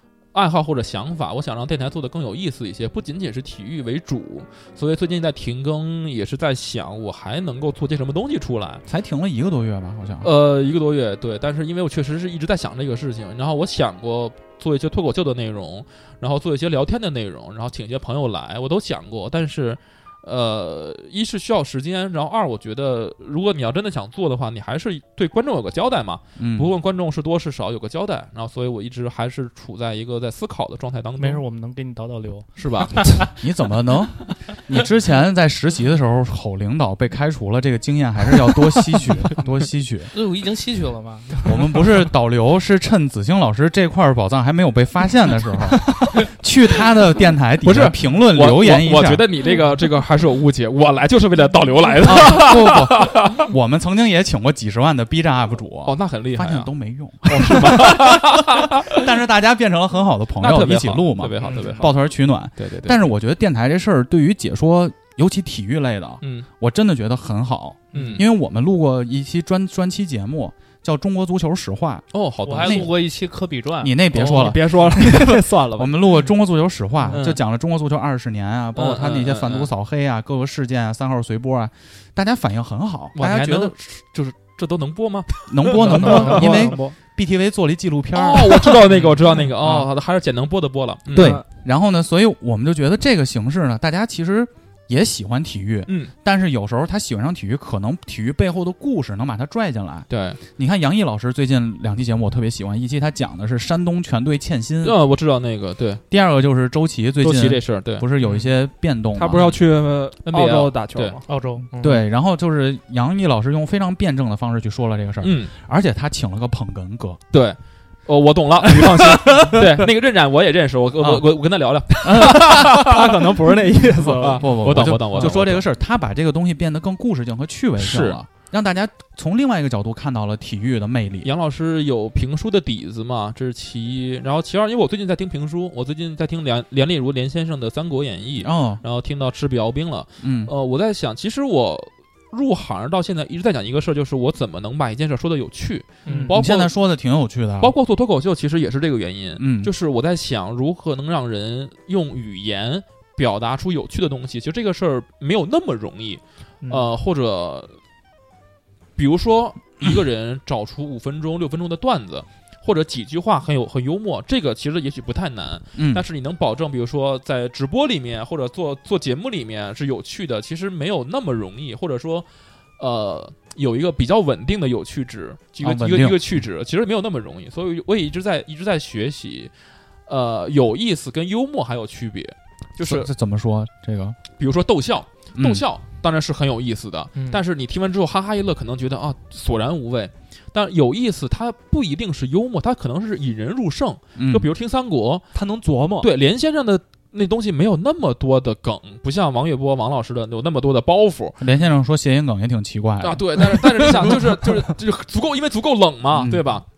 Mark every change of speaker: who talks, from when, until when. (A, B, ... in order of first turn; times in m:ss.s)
0:00.3-0:08.8 A
0:08.9-0:10.3 B
0:10.2-0:31.4 A
0:26.4-0:26.7 B
0:31.2-0:33.3 C
0:32.6-0:33.2 A
0:33.4-0:40.1 B
0:40.1-0:41.9 C
0:41.4-0:49.2 B
0:47.6-0:53.4 A
0:52.0-1:12.1 B
0:55.8-0:56.7 A
0:57.2-0:59.1 A
1:00.4-1:02.0 A
1:01.4-1:01.9 D
1:02.6-1:03.0 A
1:06.2-1:06.5 A
1:07.9-1:08.2 D
1:07.9-1:08.2 A
1:12.1-1:12.9 A
1:12.5-1:14.0 C
1:12.6-1:13.0 B
1:13.8-1:23.8 B
1:14.1-1:14.9 A
1:14.2-1:16.2 D
1:17.1-1:17.4 D
1:18.8-1:19.7 A
1:23.2-1:26.7 A
1:25.5-1:28.9 B
1:25.7-1:27.0 D
1:26.0-1:26.7 C
1:28.1-1:31.4 A
1:29.6-1:29.9 B
1:31.1-1:31.4 D
1:31.1-1:45.0 B
1:35.9-1:36.1 A
1:40.1-1:40.4 A
1:44.8-1:46.0 A
1:46.1-1:49.5 B
1:47.2-1:48.1 A
1:48.2-1:48.5 D
1:49.1-1:51.3 D
1:50.2-1:51.2 A
1:51.3-1:52.0 C
1:51.8-1:57.2 B
1:55.2-1:55.5 A
1:57.3-2:03.4 A
1:58.7-1:59.9 B
2:02.0-2:03.2 B
2:02.2-2:05.5 D
2:03.9-2:11.3 B
2:04.2-2:05.6 A
2:07.8-2:08.2 A
2:11.2-2:26.7 A
2:18.4-2:18.8 B
2:20.2-2:20.5 B
2:26.1-2:26.3 C
2:26.1-2:26.3 D
2:26.3-2:27.7 B
2:27.6-2:37.8 A
2:29.4-2:29.7 B
2:39.0-2:52.3 A
2:45.8-2:46.0 B
2:52.8-2:59.5 A
2:55.6-2:56.4 B
3:00.1-3:03.1 A
3:02.8-3:04.2 B
3:04.4-3:15.2 A
3:05.4-3:05.6 B
3:07.2-3:07.4 C
3:14.2-3:14.5 B
3:15.3-3:16.1 D
3:16.0-3:21.4 A
3:21.4-3:24.2 B
3:23.0-3:26.6 A
3:26.1-3:26.6 B